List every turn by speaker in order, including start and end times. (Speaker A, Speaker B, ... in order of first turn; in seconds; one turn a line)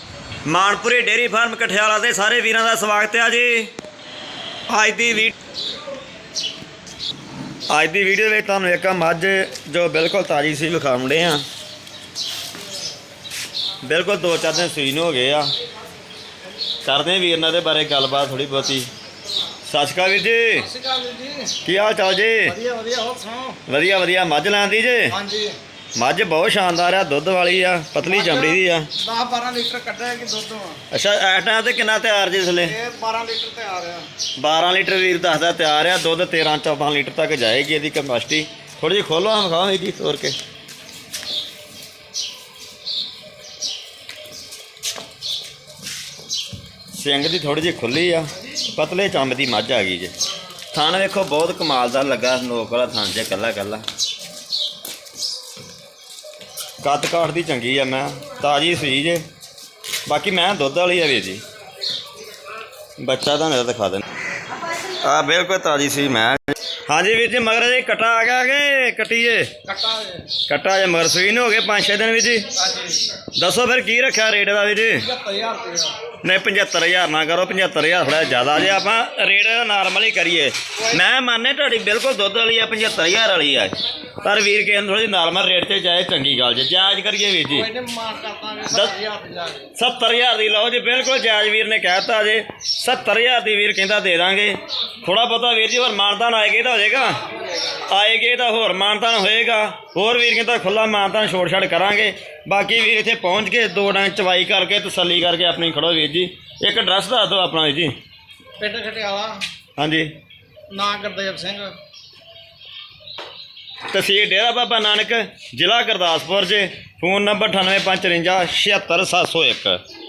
Speaker A: 0.5-3.7
Speaker A: 4.7-5.3
Speaker A: 7.7-11.4
Speaker A: 13.8-15.5
Speaker A: 16.8-18.9
Speaker A: 19.7-20.7
Speaker B: 20.6-21.6
Speaker A: 21.6-22.6
Speaker B: 22.5-23.6
Speaker A: 23.7-25.1
Speaker B: 25.1-25.6
Speaker A: 26.0-28.9
Speaker B: 28.0-30.8
Speaker A: 30.9-32.8
Speaker B: 32.6-34.1
Speaker A: 34.4-40.4
Speaker A: 46.9-50.1
Speaker A: 50.7-53.8
Speaker A: 56.8-59.2
Speaker A: 60.1-61.4
Speaker A: 63.0-64.0
Speaker A: 65.0-69.5
Speaker B: 69.7-70.3
Speaker A: 70.5-72.5
Speaker B: 72.6-73.0
Speaker A: 73.4-75.1
Speaker B: 75.0-76.0
Speaker A: 76.2-87.7
Speaker B: 87.5-89.7
Speaker A: 88.7-89.0
Speaker A: 89.8-97.2
Speaker A: 97.8-107.9
Speaker B: 108.6-109.4
Speaker A: 109.8-110.1
Speaker B: 110.7-111.7
Speaker A: 113.9-119.8